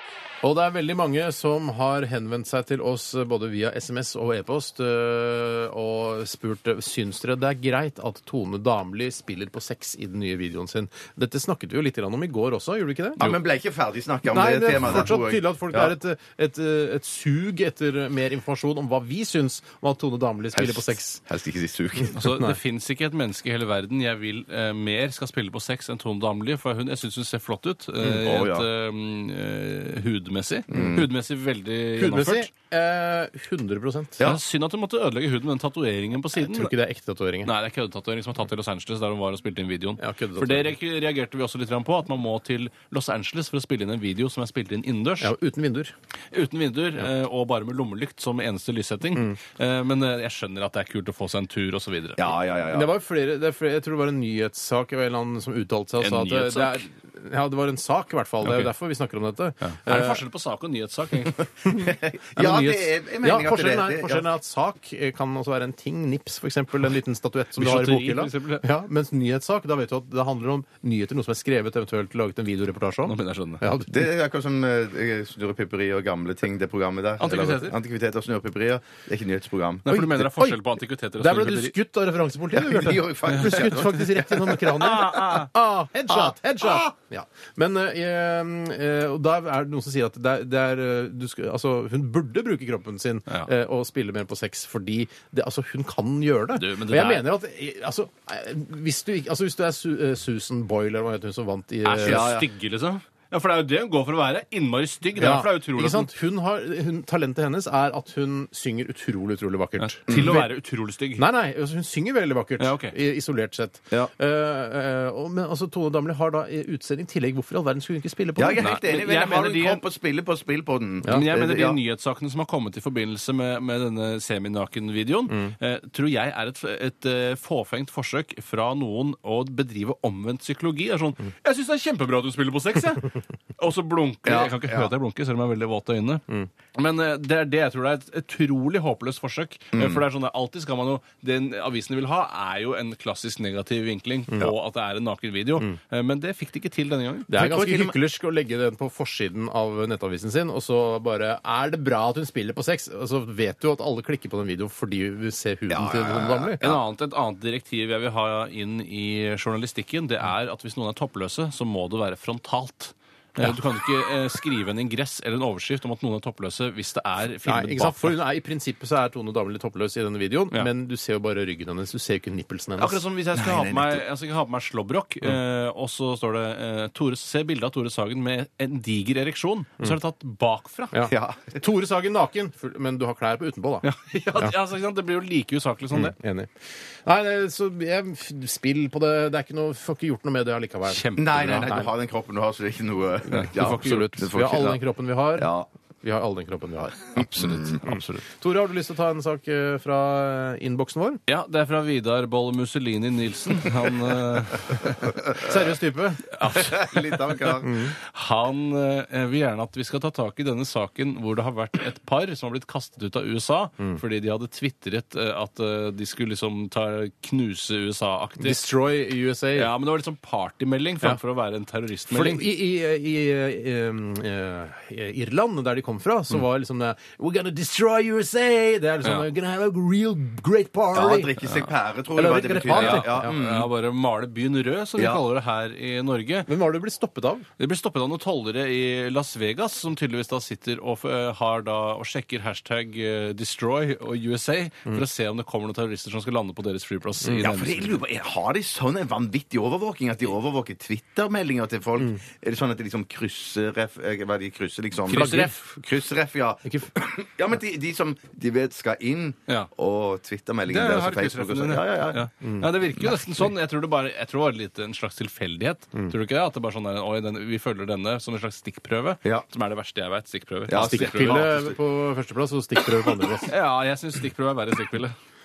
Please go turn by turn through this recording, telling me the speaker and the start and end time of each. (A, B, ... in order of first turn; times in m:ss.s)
0:00.4-0:13.3 A
0:13.2-0:15.9 B
0:14.3-0:21.2 A
0:20.5-0:22.2 B
0:22.1-0:32.5 C
0:28.1-0:28.7 B
0:30.7-0:31.1 B
0:32.0-0:34.2 A
0:34.2-0:36.7 C
0:36.3-0:37.5 A
0:37.4-0:45.3 C
0:40.0-0:40.7 A
0:45.2-0:45.9 A
0:46.3-0:52.3 C
0:52.2-0:52.9 B
0:52.7-1:00.2 A
0:56.0-0:56.8 C
0:59.6-1:01.5 C
1:01.6-1:04.3 B
1:02.4-1:14.0 A
1:07.6-1:08.6 C
1:13.0-1:13.6 C
1:13.9-1:19.9 B
1:17.2-1:17.8 C
1:19.9-1:21.7 C
1:19.9-1:20.6 A
1:21.2-1:42.3 A
1:22.5-1:25.5 B
1:23.3-1:23.6 C
1:24.8-1:25.4 C
1:26.1-1:26.8 B
1:36.6-1:37.3 C
1:41.8-1:46.1 C
1:42.0-1:42.5 B
1:45.2-1:50.5 A
1:49.8-1:51.2 C
1:50.1-1:50.4 B
1:51.2-1:58.8 A
1:52.6-1:52.9 C
1:58.4-2:01.8 B
1:58.6-1:59.8 C
2:01.0-2:27.3 C
2:14.2-2:14.9 B
2:19.7-2:20.0 B
2:27.3-2:36.6 A
2:27.3-2:28.0 B
2:35.7-2:36.8 B
2:36.6-2:48.1 C
2:47.4-2:53.0 A
2:52.8-3:01.1 C
2:53.3-2:54.0 B
3:00.9-3:03.8 A
3:01.1-3:01.6 B
3:03.8-3:06.2 C
3:05.9-3:06.5 A
3:07.0-3:11.1 A
3:10.9-3:11.8 C
3:11.1-3:14.8 B
3:11.6-3:11.9 A
3:13.3-3:15.5 A
3:13.4-3:14.1 C
3:15.4-3:15.7 B
3:16.0-3:21.2 A
3:17.4-3:17.8 B
3:17.4-3:18.2 C
3:21.3-3:25.2 C
3:25.3-3:26.4 A
3:26.3-3:27.3 C
3:26.5-3:27.9 B
3:27.6-3:27.9 A
3:28.0-3:38.6 C
3:38.4-3:39.7 A
3:39.5-3:42.5 C
3:42.1-3:51.3 A
3:50.9-3:53.7 B
3:52.1-3:53.2 A
3:52.7-3:56.5 C
3:55.0-3:55.2 B
3:56.5-3:57.5 A
3:57.6-4:08.0 C
4:07.3-4:22.2 B
4:15.1-4:15.5 C
4:15.1-4:15.8 A
4:16.6-4:16.9 A
4:20.7-4:31.7 C
4:22.4-4:22.7 A
4:30.7-4:31.7 B
4:30.7-4:33.5 A
4:33.5-4:35.1 C